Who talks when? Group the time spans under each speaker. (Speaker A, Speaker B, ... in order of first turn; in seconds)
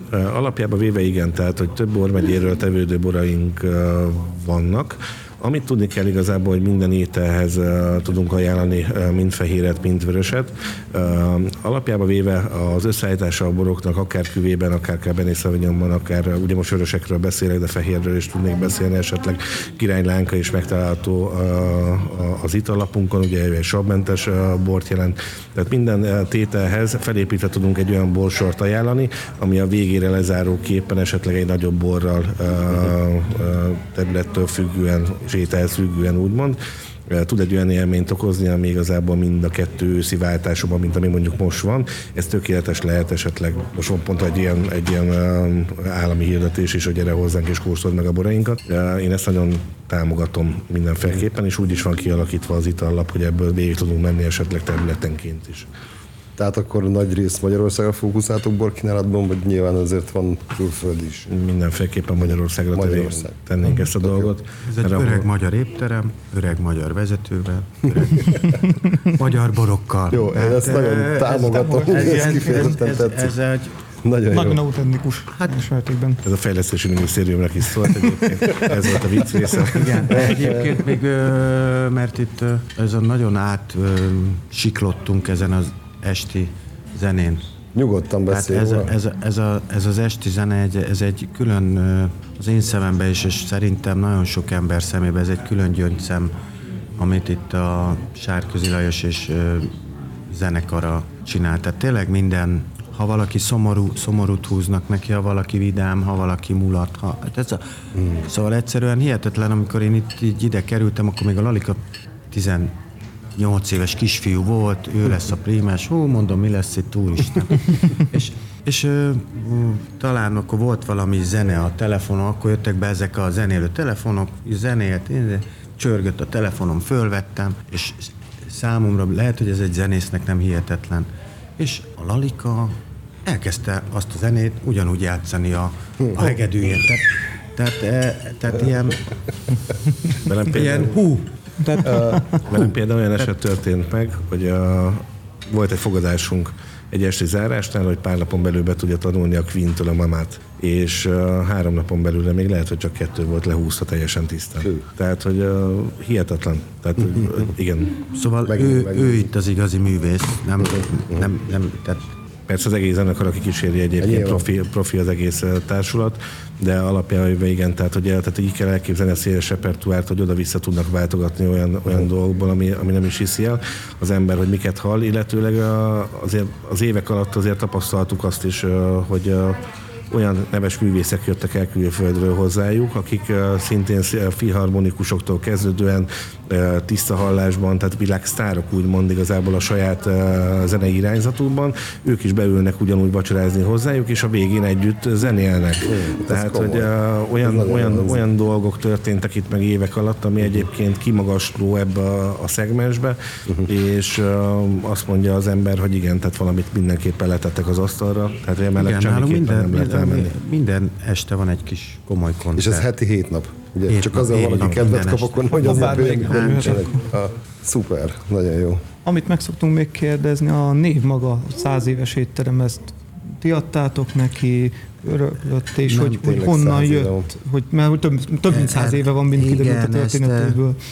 Speaker A: 0.1-55.7, 61.3-65.3, 76.2-80.4, 140.2-141.0, 142.3-158.0, 162.5-210.3
Speaker B: 56.4-61.3, 62.7-64.3, 70.1-73.3, 74.0-74.7, 87.7-88.9, 141.8-142.2, 158.4-159.3, 164.0-164.5, 195.9-198.2, 212.6-218.8, 226.0-227.3
Speaker C: 64.6-73.8, 75.3-75.6, 79.6-87.5, 88.3-96.3, 97.0-111.8, 112.3-112.8, 113.4-139.1, 140.5-141.3, 141.8-142.1, 158.1-162.1, 208.8-212.9, 213.9-216.9, 228.5-230.6
Speaker D: 71.7-72.8, 74.3-76.2, 141.6-142.5, 215.6-217.0, 219.1-230.8